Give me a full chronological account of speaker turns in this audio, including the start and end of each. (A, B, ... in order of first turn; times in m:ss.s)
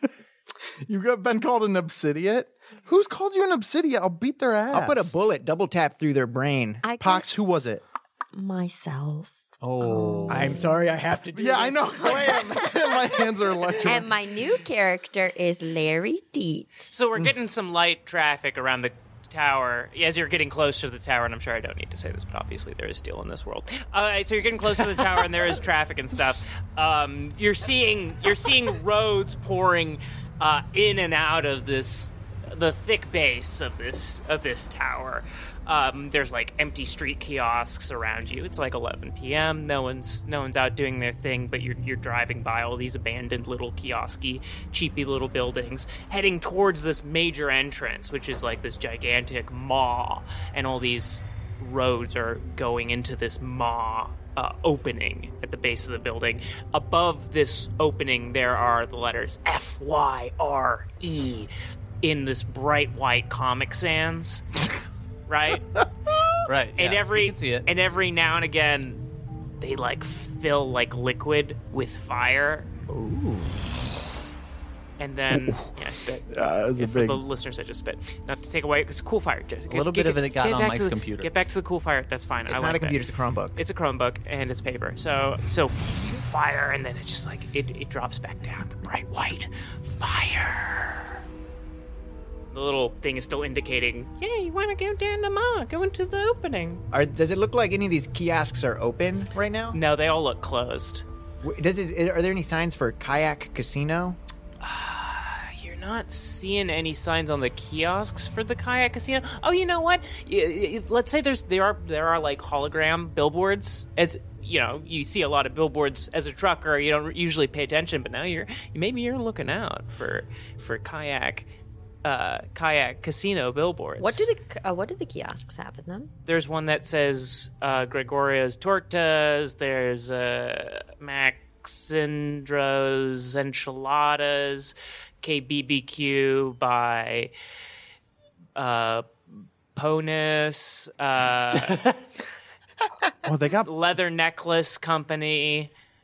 0:00.9-0:05.2 A
0:04.7-0:06.8 B
0:06.8-0:07.3 C
0:07.0-0:07.8 A
0:08.3-0:10.7 C
0:09.6-0:10.6 D
0:10.3-0:12.6 B
0:11.3-0:14.1 A
0:12.3-0:13.0 C
0:13.8-0:16.9 C
0:16.9-1:04.4 E
1:05.3-1:05.8 E
1:06.4-1:07.7 D
1:06.8-1:09.1 E
1:09.6-1:12.7 E
1:12.9-1:13.6 B
1:15.0-1:23.0 E
1:15.3-1:15.8 A
1:16.3-1:17.2 A
1:19.7-1:21.3 D
1:22.5-1:23.6 B
1:23.6-1:31.1 E
1:32.5-1:36.8 E
1:36.9-1:39.8 B
1:39.7-1:41.0 E
1:41.4-1:44.2 B
1:44.6-2:01.5 E
2:02.0-2:04.3 E
2:04.0-2:06.1 C
2:06.3-2:17.3 E
2:18.6-2:19.1 E
2:19.8-2:21.9 E
2:23.2-2:23.7 A
2:23.7-2:25.7 E